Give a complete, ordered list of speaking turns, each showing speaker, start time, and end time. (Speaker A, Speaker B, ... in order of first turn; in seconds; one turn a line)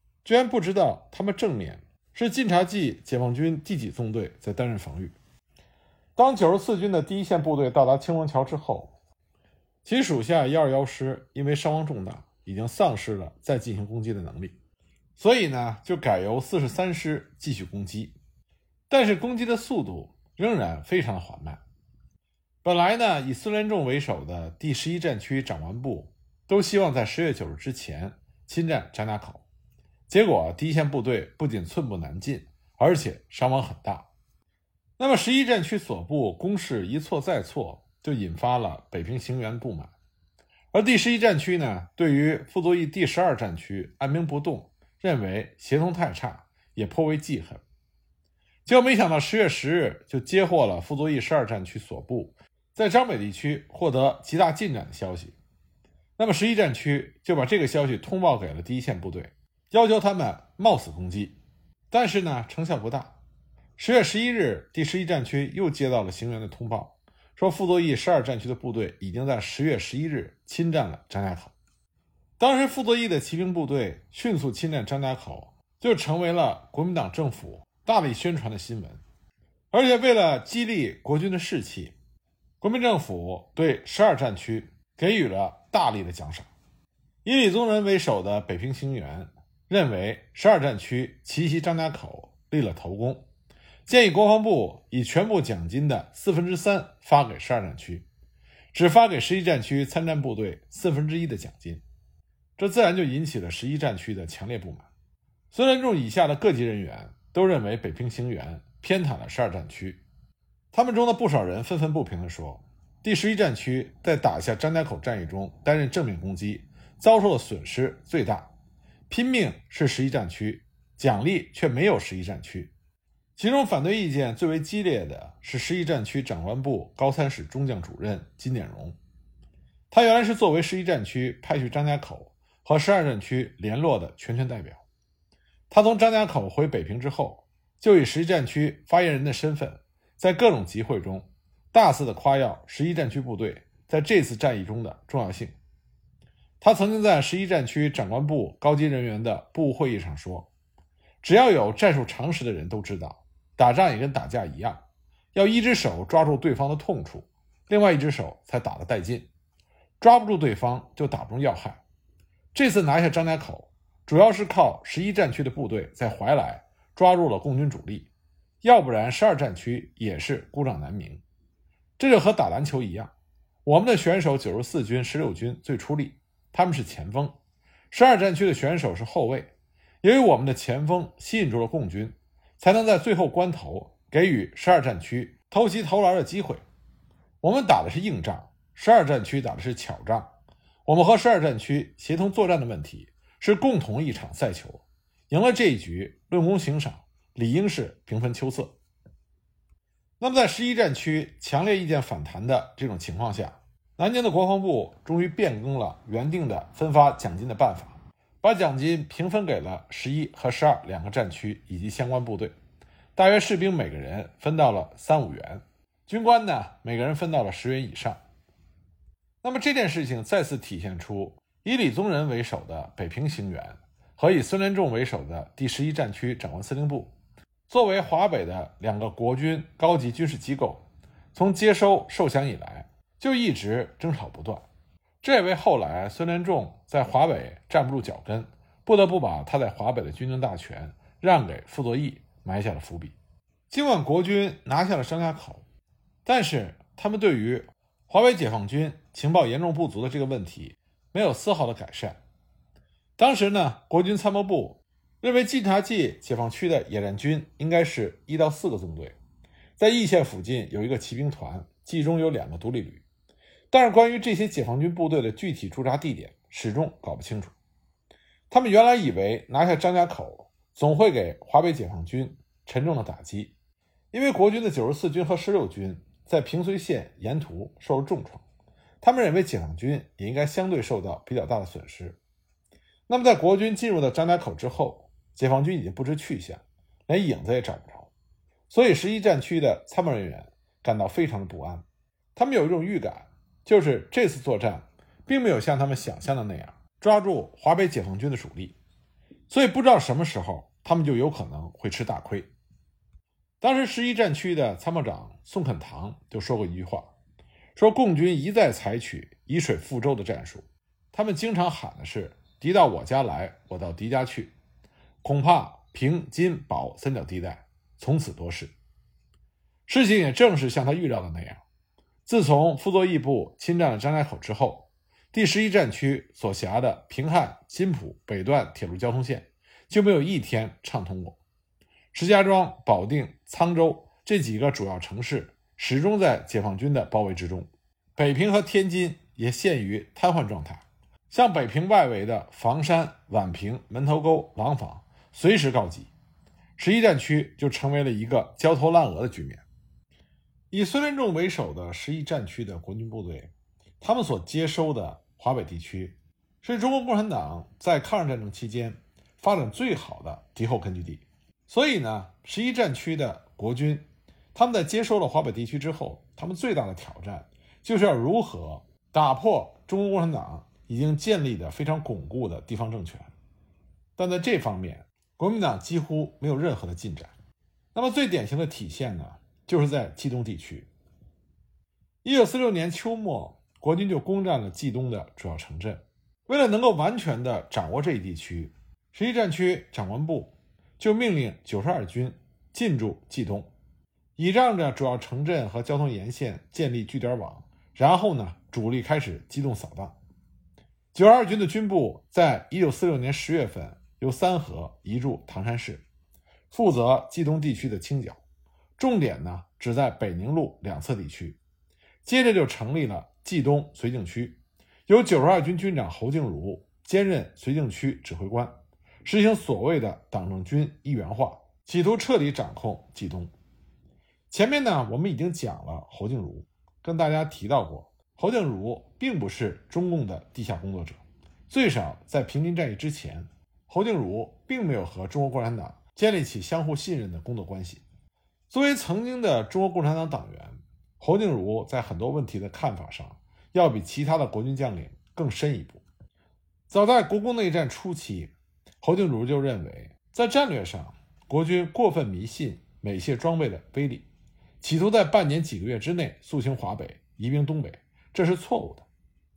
Speaker A: 0.2-5.2
Speaker A: 6.2-8.9
Speaker A: 9.8-14.6
Speaker A: 15.2-18.2
Speaker A: 18.9-21.6
Speaker A: 22.6-29.4
Speaker A: 30.1-34.1
Speaker A: 35.0-39.9
Speaker A: 40.7-47.6
Speaker A: 48.7-55.4
Speaker A: 56.2-61.4
Speaker A: 61.9-63.2
Speaker A: 63.8-71.5
Speaker A: 72.4-79.0
Speaker A: 79.7-82.0
Speaker A: 82.6-86.5
Speaker A: 87.2-93.3
Speaker A: 93.9-98.1
Speaker A: 98.7-101.8
Speaker A: 102.6-104.9
Speaker A: 105.5-110.0
Speaker A: 110.7-118.5
Speaker A: 119.1-122.7
Speaker A: 123.4-129.0
Speaker A: 129.9-134.8
Speaker A: 135.7-145.6
Speaker A: 146.6-150.5
Speaker A: 151.2-154.8
Speaker A: 155.3-159.3
Speaker A: 160.0-161.8
Speaker A: 162.5-168.1
Speaker A: 168.6-171.2
Speaker A: 172.0-173.1
Speaker A: 173.7-177.4
Speaker A: 177.9-186.6
Speaker A: 187.4-190.3
Speaker A: 190.9-198.8
Speaker A: 200.2-212.6
Speaker A: 213.2-218.2
Speaker A: 219.4-227.2
Speaker A: 227.7-234.7
Speaker A: 235.2-243.2
Speaker A: 243.7-245.7
Speaker A: 246.2-252.2
Speaker A: 253.2-259.2
Speaker A: 259.8-263.0
Speaker A: 263.7-267.5
Speaker A: 268.5-273.6
Speaker A: 274.1-278.4
Speaker A: 279.0-282.2
Speaker A: 283.1-288.1
Speaker A: 288.7-298.8
Speaker A: 299.5-302.5
Speaker A: 303.6-307.1
Speaker A: 307.8-314.6
Speaker A: 315.2-318.8
Speaker A: 319.9-321.6
Speaker A: 322.3-331.4
Speaker A: 332.1-346.1
Speaker A: 346.8-349.6
Speaker A: 350.7-373.3
Speaker A: 374.2-377.3
Speaker A: 377.9-380.9
Speaker A: 382.2-393.7
Speaker A: 394.4-400.2
Speaker A: 401.1-406.1
Speaker A: 406.7-408.4
Speaker A: 409.0-411.6
Speaker A: 412.2-418.7
Speaker A: 419.2-423.5
Speaker A: 424.5-438.0
Speaker A: 438.7-446.0
Speaker A: 446.9-454.3
Speaker A: 454.8-459.1